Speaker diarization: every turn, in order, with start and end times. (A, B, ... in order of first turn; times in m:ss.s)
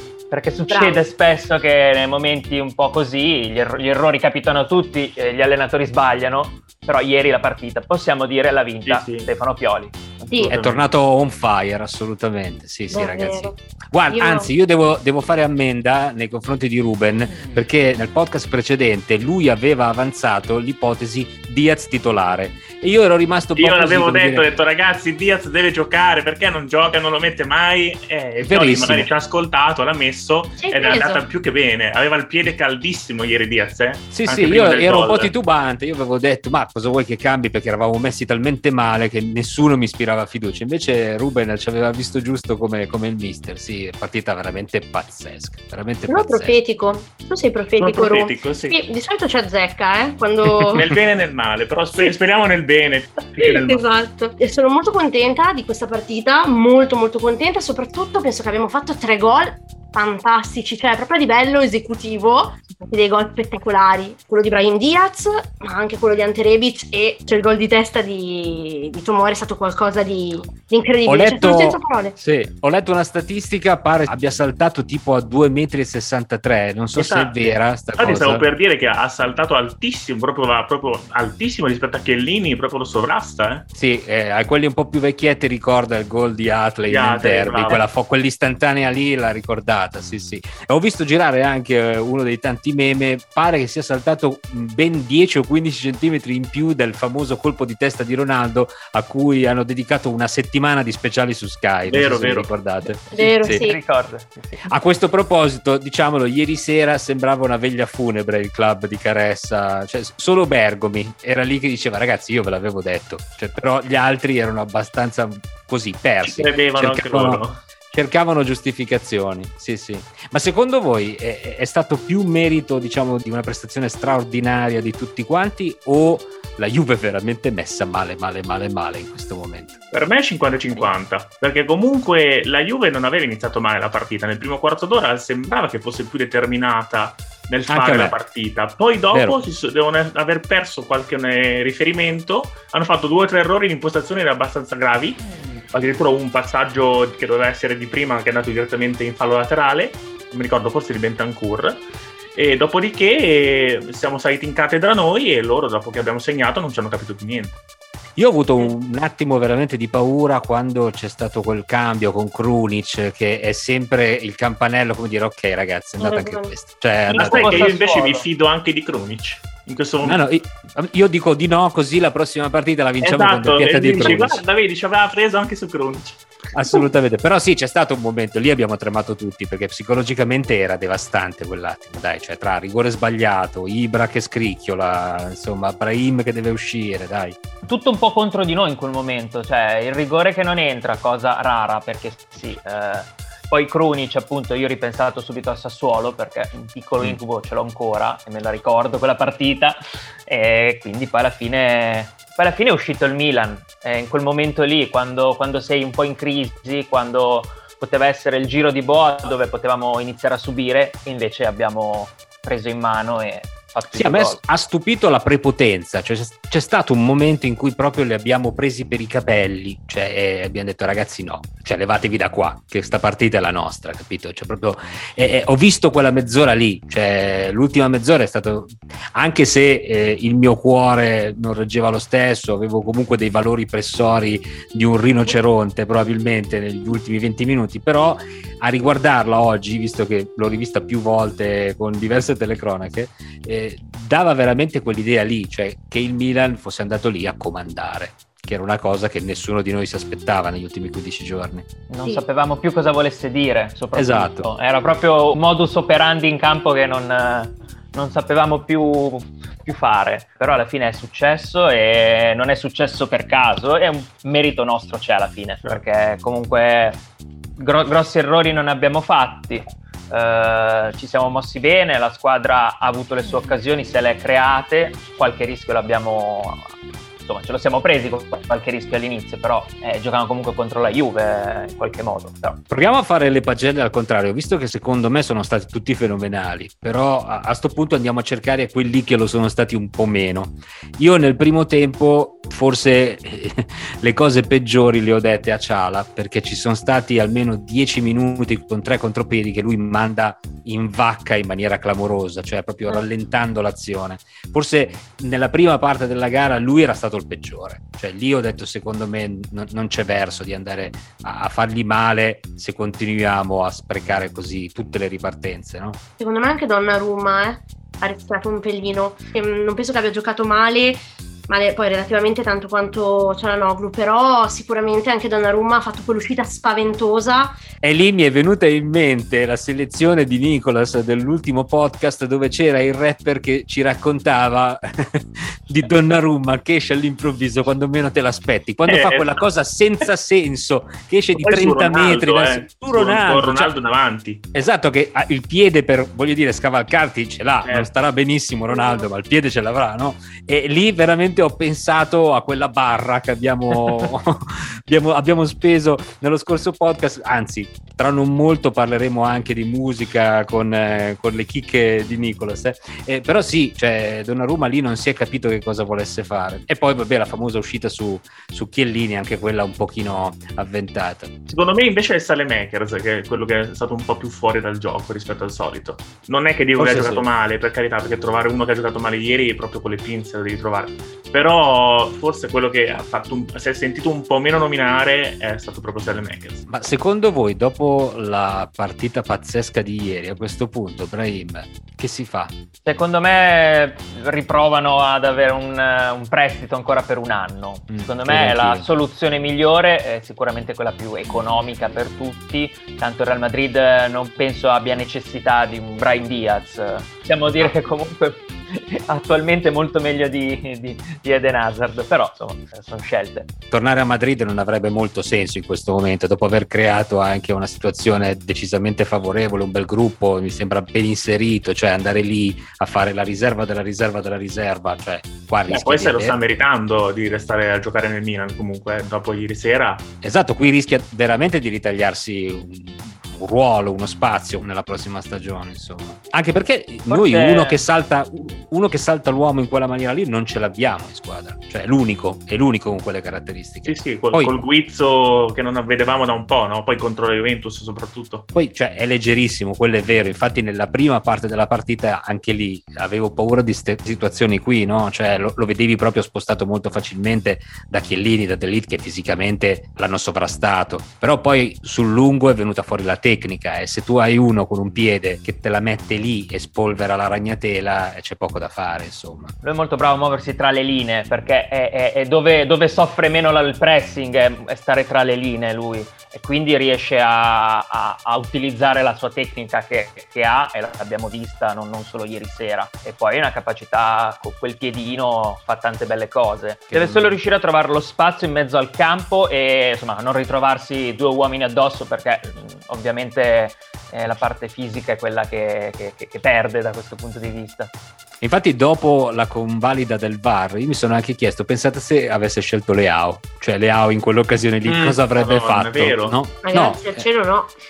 0:00.3-0:10.5 A
0:00.7-0:01.0 B
0:08.9-0:09.3 C
0:10.4-0:24.5 D
0:10.5-0:10.9 C
0:12.9-0:13.6 B
0:14.1-0:14.5 B
0:23.6-0:35.3 C
0:28.4-0:29.1 D
0:30.6-0:31.2 B
0:34.1-0:46.6 D
0:46.1-0:50.9 B
0:47.8-0:48.8 C
0:50.6-0:51.0 D
0:50.7-0:53.8 C
0:53.4-1:12.2 B
1:11.1-1:18.5 D
1:17.0-1:23.6 C
1:23.8-1:43.7 D
1:26.9-1:27.8 C
1:41.9-1:42.5 C
1:43.1-1:43.8 B
1:43.2-1:44.7 A
1:44.7-2:09.7 D
1:56.2-1:57.6 C
2:09.9-2:25.2 C
2:17.7-2:18.2 D
2:19.1-2:19.4 D
2:25.7-2:31.8 C
2:32.4-2:37.6 C
2:38.2-2:47.7 D
2:46.0-2:46.5 B
2:47.1-2:48.3 A
2:47.2-2:50.2 C
2:50.0-2:54.4 D
2:53.0-2:56.2 C
2:56.5-3:07.4 D
3:07.6-3:34.4 A
3:33.9-4:11.7 D
4:11.9-4:27.0 A
4:14.0-4:14.5 D
4:27.6-4:36.7 A
4:37.2-4:42.6 A
4:42.7-5:16.0 D
5:16.2-5:27.6 B
5:27.8-5:43.7 D
5:38.9-5:39.4 C
5:41.4-5:44.4 C
5:44.5-6:11.3 D
5:47.6-5:47.9 C
5:48.7-5:49.1 B
6:11.5-6:26.6 C
6:16.8-6:17.3 D
6:26.7-6:32.5 D
6:32.9-6:53.5 A
6:37.9-6:38.9 D
6:53.7-7:06.4 D
7:05.7-7:10.0 C
7:10.2-7:24.6 D
7:17.1-7:17.8 A
7:23.8-7:28.4 C
7:28.5-7:49.5 D
7:49.6-8:17.9 A
8:06.9-8:07.4 D
8:18.4-8:27.3 D
8:24.8-8:26.4 C
8:26.6-8:27.7 B